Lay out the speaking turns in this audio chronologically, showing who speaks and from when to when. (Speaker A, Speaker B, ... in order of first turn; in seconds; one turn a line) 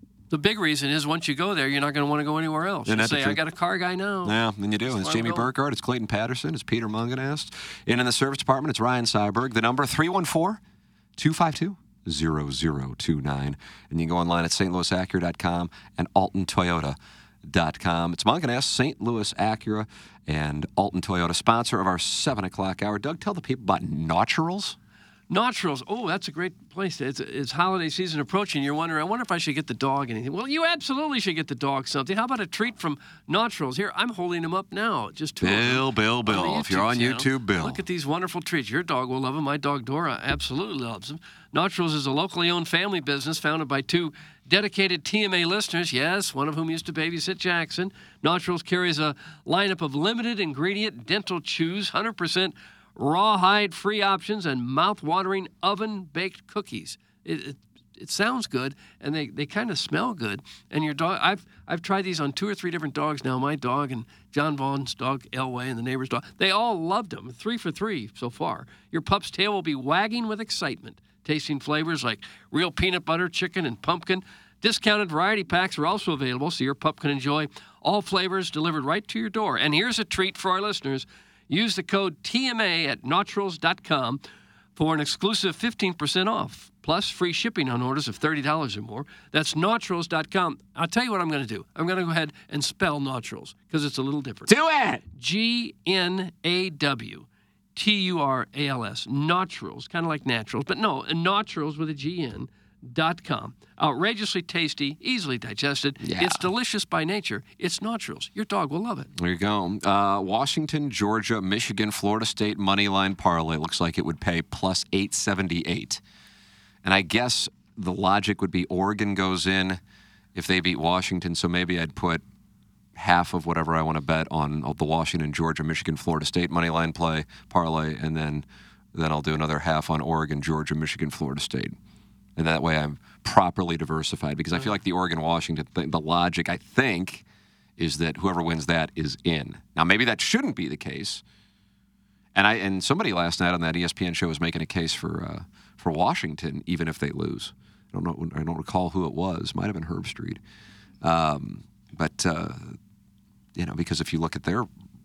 Speaker A: 0.3-5.5
Speaker B: 2.9-3.4
Speaker B: 4.2-10.6
Speaker B: 11.2-24.8
Speaker A: 25.3-84.2
Speaker B: 35.4-37.8
Speaker A: 84.8-94.5
Speaker B: 94.5-95.0
Speaker A: 95.2-109.1
Speaker B: 106.0-106.5
Speaker B: 109.2-116.0
Speaker B: 116.8-119.8
Speaker B: 120.3-122.2
Speaker B: 123.0-131.8
Speaker B: 132.4-137.2
Speaker B: 137.8-141.2
Speaker B: 142.3-150.4
Speaker B: 151.0-152.8
Speaker B: 153.6-154.7